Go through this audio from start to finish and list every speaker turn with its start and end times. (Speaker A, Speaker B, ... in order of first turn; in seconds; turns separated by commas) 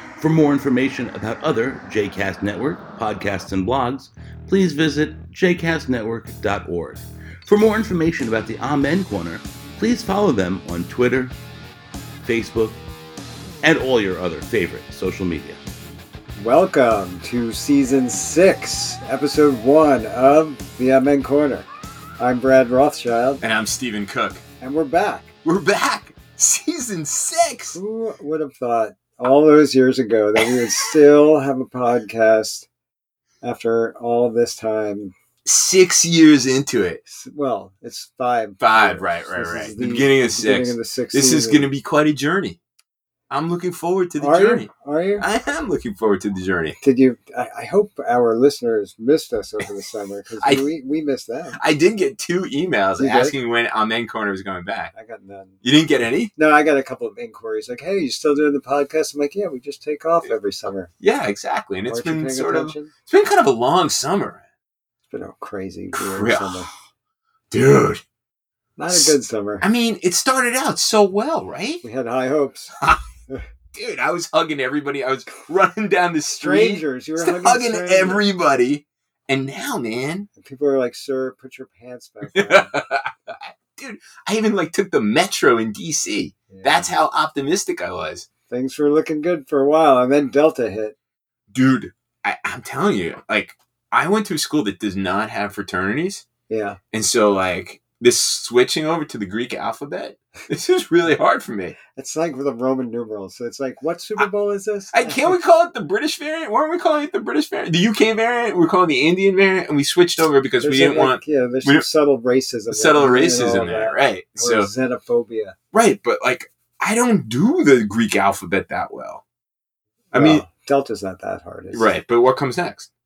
Speaker A: 0.2-11.3, Speaker A: 12.2-12.8, Speaker A: 13.6-15.6, Speaker B: 16.4-21.7, Speaker B: 22.2-23.4, Speaker C: 23.4-24.4, Speaker B: 24.6-25.3, Speaker C: 25.4-27.8, Speaker B: 27.7-32.7, Speaker C: 30.4-30.6, Speaker B: 33.4-35.1, Speaker C: 35.4-37.0, Speaker B: 37.0-41.7, Speaker C: 38.6-42.6, Speaker C: 43.3-46.8, Speaker B: 44.2-45.2, Speaker B: 46.8-51.6, Speaker C: 50.4-50.6, Speaker C: 51.5-54.9, Speaker B: 53.0-53.4, Speaker B: 54.9-55.6, Speaker C: 55.6-56.3, Speaker B: 56.4-60.9, Speaker C: 61.0-64.4, Speaker B: 61.9-62.9, Speaker B: 65.1-66.7, Speaker C: 65.9-66.7, Speaker C: 67.5-68.0, Speaker B: 68.8-69.6, Speaker C: 68.9-71.8, Speaker B: 71.8-72.7, Speaker C: 73.7-80.3, Speaker B: 76.4-78.2, Speaker B: 80.4-82.7, Speaker C: 82.3-88.2, Speaker B: 86.5-86.9, Speaker B: 88.5-90.9, Speaker C: 91.5-96.2, Speaker B: 96.5-96.8, Speaker C: 96.9-101.8, Speaker B: 101.9-105.4, Speaker C: 104.9-111.8, Speaker B: 110.6-115.5, Speaker C: 112.7-114.7, Speaker C: 115.7-119.2, Speaker B: 120.1-121.9, Speaker C: 120.1-120.4, Speaker C: 121.7-122.9